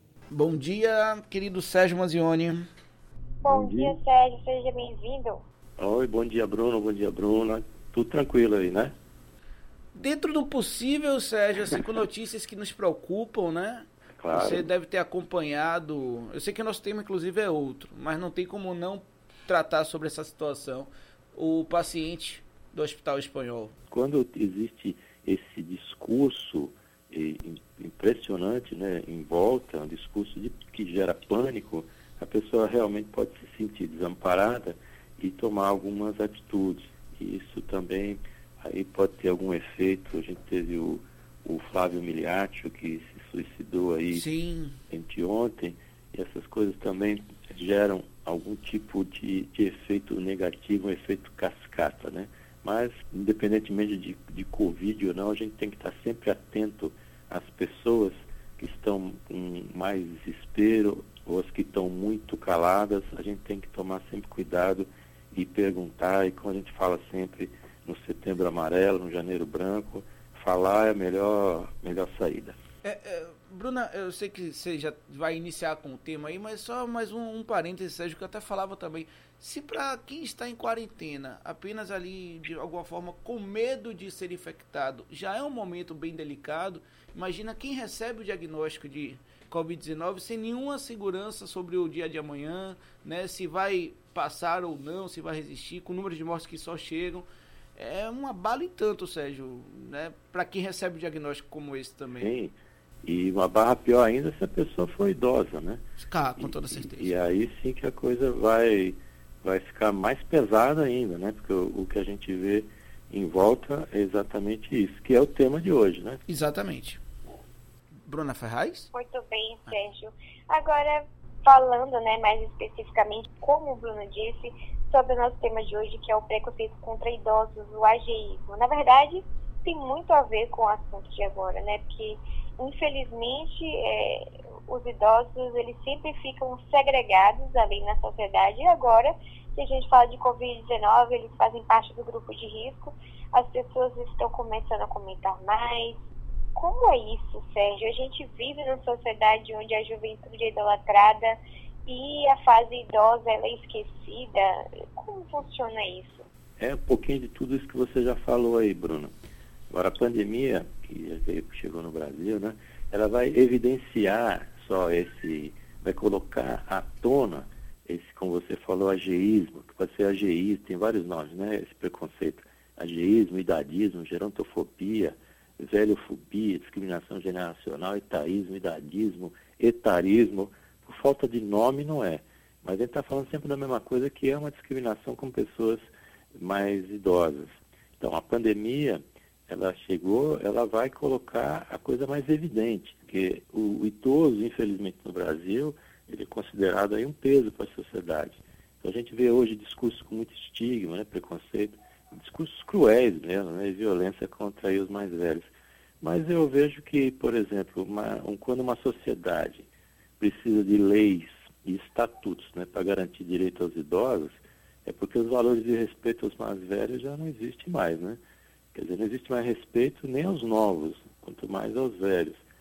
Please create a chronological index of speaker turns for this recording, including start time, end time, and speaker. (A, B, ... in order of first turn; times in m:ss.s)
0:00.3-0:02.7 A
0:03.4-0:05.4 B
0:03.4-0:04.0 C
0:05.8-0:09.0 C
0:09.9-0:23.8 A
0:14.2-0:14.7 C
0:23.9-0:44.2 C
0:44.1-0:44.8 A
0:44.9-1:12.6 C
1:12.8-1:42.3 A
1:42.2-1:45.8 C
1:46.0-1:47.2 A
1:46.4-1:56.2 C
1:56.3-1:57.0 A
1:58.0-1:58.9 A
1:58.9-2:26.0 B
2:26.6-2:36.3 B
2:36.6-2:39.1 C
2:39.7-3:25.5 C
3:26.0-3:29.7 C
3:30.2-3:38.2 C
3:38.7-3:42.4 C